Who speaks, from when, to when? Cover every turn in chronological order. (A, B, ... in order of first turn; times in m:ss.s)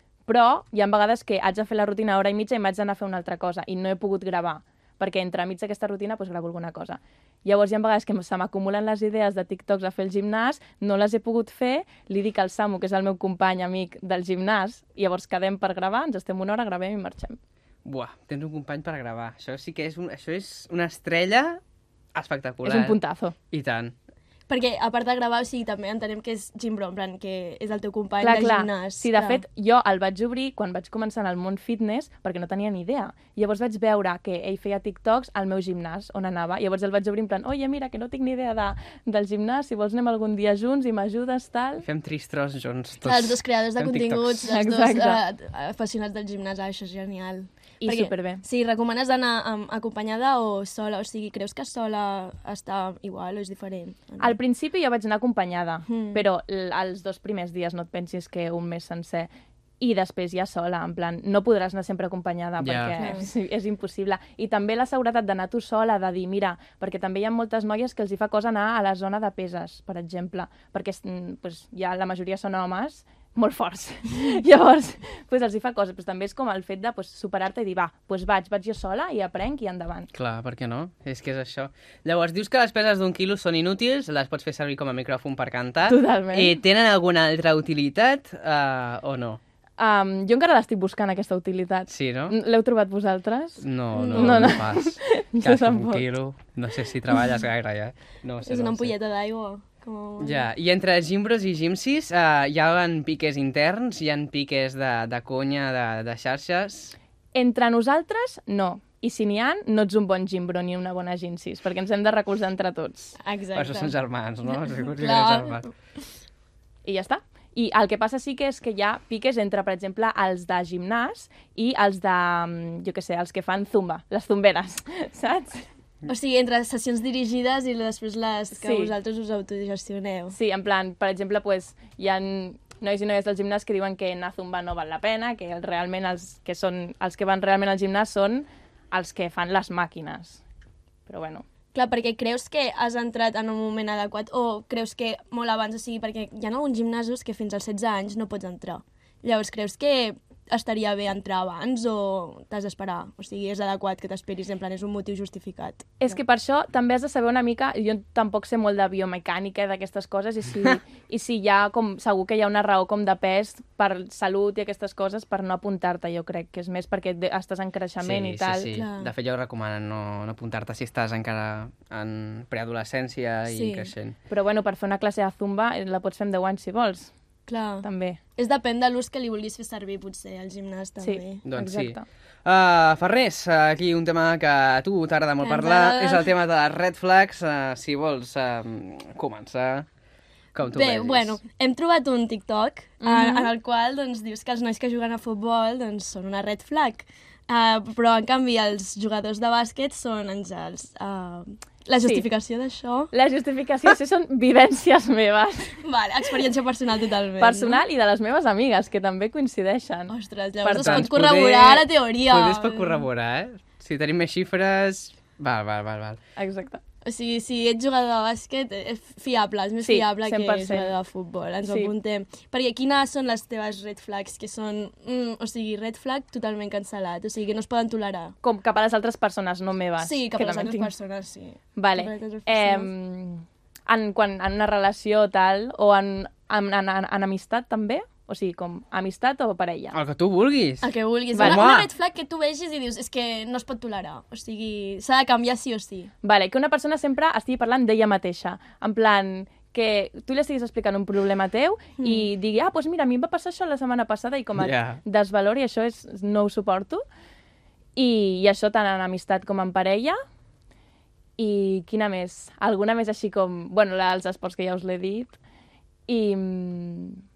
0:00.2-0:17.4 A
0:17.8-0:21.6 B
0:22.1-0:23.0 B
0:22.6-0:23.3 A
0:23.5-0:23.9 B
0:24.5-0:29.4 C
0:28.2-0:41.8 A
0:41.8-0:44.4 B
0:43.0-0:54.4 C
0:44.5-0:45.2 A
0:47.8-0:48.4 A
0:54.2-1:20.1 A
0:55.9-0:56.2 C
1:02.6-1:02.9 B
1:03.0-1:03.3 C
1:20.1-1:29.4 B
1:25.9-1:26.6 A
1:29.8-1:36.0 A
1:31.9-1:32.3 B
1:33.6-1:38.9 B
1:34.0-1:34.6 C
1:38.4-1:40.5 C
1:40.2-1:46.9 B
1:47.3-1:53.2 A
1:53.2-1:54.0 C
1:53.6-1:55.7 B
1:54.5-1:55.7 C
1:56.8-2:05.7 A
2:06.0-2:10.4 C
2:08.6-2:08.9 A
2:10.3-2:20.4 A
2:21.1-2:21.4 A
2:21.7-2:36.0 C
2:36.0-2:48.7 A
2:48.0-2:54.1 B
2:48.7-2:49.1 C
2:53.5-2:53.9 C
2:54.3-2:57.1 A
2:57.5-2:57.8 C
2:57.8-2:58.2 A
2:58.4-3:01.4 C
3:01.0-3:02.0 A
3:01.4-3:09.8 B
3:05.4-3:06.3 C
3:10.5-3:11.4 B
3:10.7-3:23.1 C
3:13.0-3:13.5 A
3:22.0-3:22.3 A
3:23.1-3:25.8 A
3:25.8-3:27.8 C
3:27.4-3:30.1 A
3:30.1-3:33.0 C
3:30.6-3:31.1 A
3:30.8-3:36.2 B
3:36.4-3:36.8 A
3:37.0-3:48.3 C
3:39.8-3:40.9 A
3:41.6-3:41.9 A
3:48.4-3:50.9 A
3:50.0-3:52.9 C
3:51.8-4:00.0 A
3:59.9-4:00.9 B
4:00.8-4:06.1 C
4:01.3-4:01.6 A
4:01.4-4:01.9 B
4:06.2-4:17.0 A
4:12.0-4:12.2 C
4:14.6-4:15.0 B
4:18.0-4:20.2 A
4:21.4-4:25.4 A
4:26.1-4:27.2 A